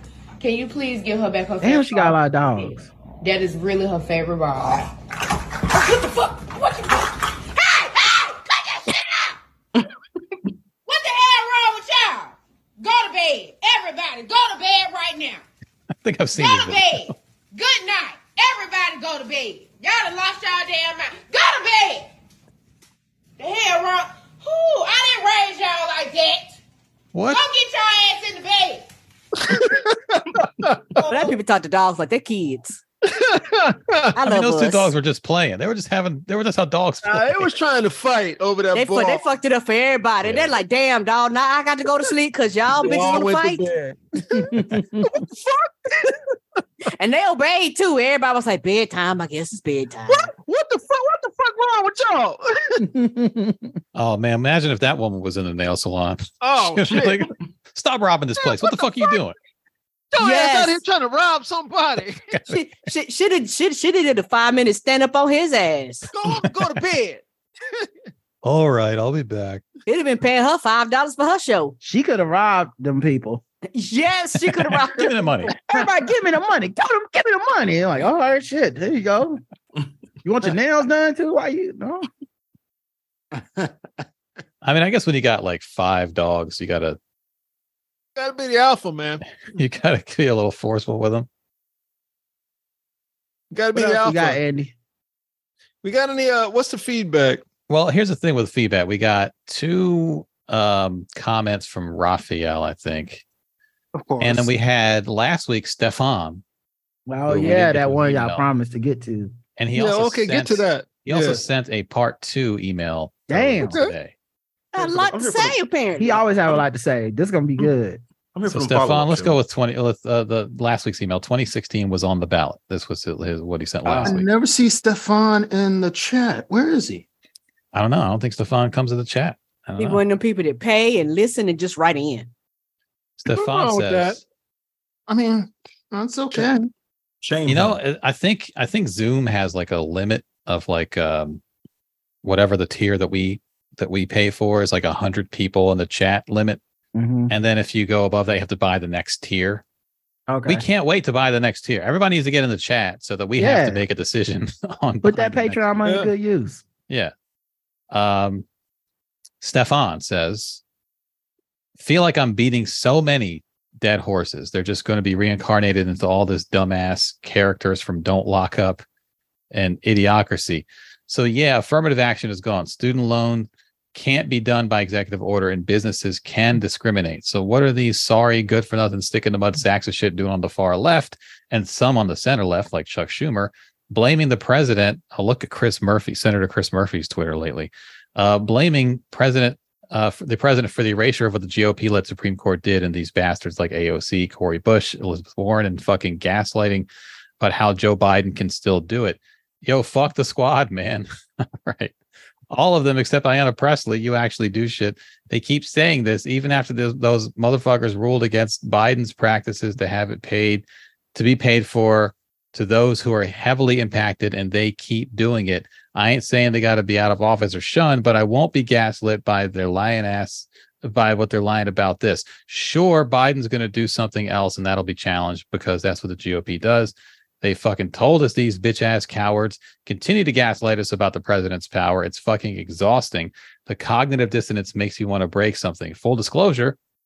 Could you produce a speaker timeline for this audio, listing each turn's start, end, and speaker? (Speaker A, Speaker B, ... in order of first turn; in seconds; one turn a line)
Speaker A: 0.4-4.9
Speaker B: 1.6-2.9
Speaker A: 5.7-9.4
Speaker A: 10.8-15.4
Speaker C: 16.0-17.1
Speaker A: 16.3-22.1
Speaker A: 23.4-26.6
Speaker C: 27.1-27.4
Speaker A: 27.3-28.8
Speaker D: 29.4-31.0
Speaker E: 31.0-32.8
Speaker D: 33.0-34.2
Speaker E: 34.1-34.9
Speaker C: 34.2-37.5
Speaker D: 37.0-39.2
Speaker E: 38.7-43.7
Speaker C: 40.2-40.5
Speaker D: 42.7-46.2
Speaker E: 46.9-50.3
Speaker D: 50.1-52.9
Speaker B: 52.8-53.6
Speaker C: 53.9-59.3
Speaker D: 56.4-57.3
Speaker D: 58.4-59.2
Speaker D: 60.1-62.3
Speaker E: 60.2-60.8
Speaker E: 62.5-66.1
Speaker D: 66.1-67.9
Speaker C: 68.4-69.6
Speaker E: 69.9-71.7
Speaker B: 71.8-73.4
Speaker E: 73.7-75.5
Speaker C: 74.4-75.6
Speaker B: 75.7-79.4
Speaker B: 80.2-82.0
Speaker C: 84.6-87.0
Speaker D: 88.2-89.2
Speaker C: 89.5-91.3
Speaker D: 93.5-94.4
Speaker B: 93.7-94.7
Speaker D: 95.8-97.4
Speaker C: 97.7-103.2
Speaker F: 104.0-104.5
Speaker C: 104.2-106.4
Speaker B: 107.1-109.3
Speaker C: 107.3-108.4
Speaker C: 109.5-114.1
Speaker D: 109.7-111.4
Speaker B: 113.3-113.8
Speaker D: 113.6-113.9
Speaker E: 114.7-116.2
Speaker G: 114.8-115.6
Speaker B: 116.0-118.0
Speaker G: 118.3-119.4
Speaker C: 118.5-124.3
Speaker F: 123.9-127.0
Speaker C: 127.7-130.0
Speaker E: 129.8-132.3
Speaker C: 133.2-134.2
Speaker D: 133.3-134.2
Speaker F: 135.1-136.7
Speaker G: 137.2-137.8
Speaker C: 137.4-141.4
Speaker C: 142.2-146.6
Speaker B: 146.9-147.3
Speaker C: 147.3-149.6
Speaker B: 150.3-150.6
Speaker C: 150.4-155.8
Speaker B: 153.4-153.8
Speaker B: 155.0-156.6
Speaker D: 155.8-156.1
Speaker C: 157.9-158.4
Speaker C: 159.4-160.6
Speaker C: 161.8-168.8
Speaker C: 169.5-196.9
Speaker C: 197.4-201.1
Speaker C: 201.6-201.9
Speaker C: 202.5-236.8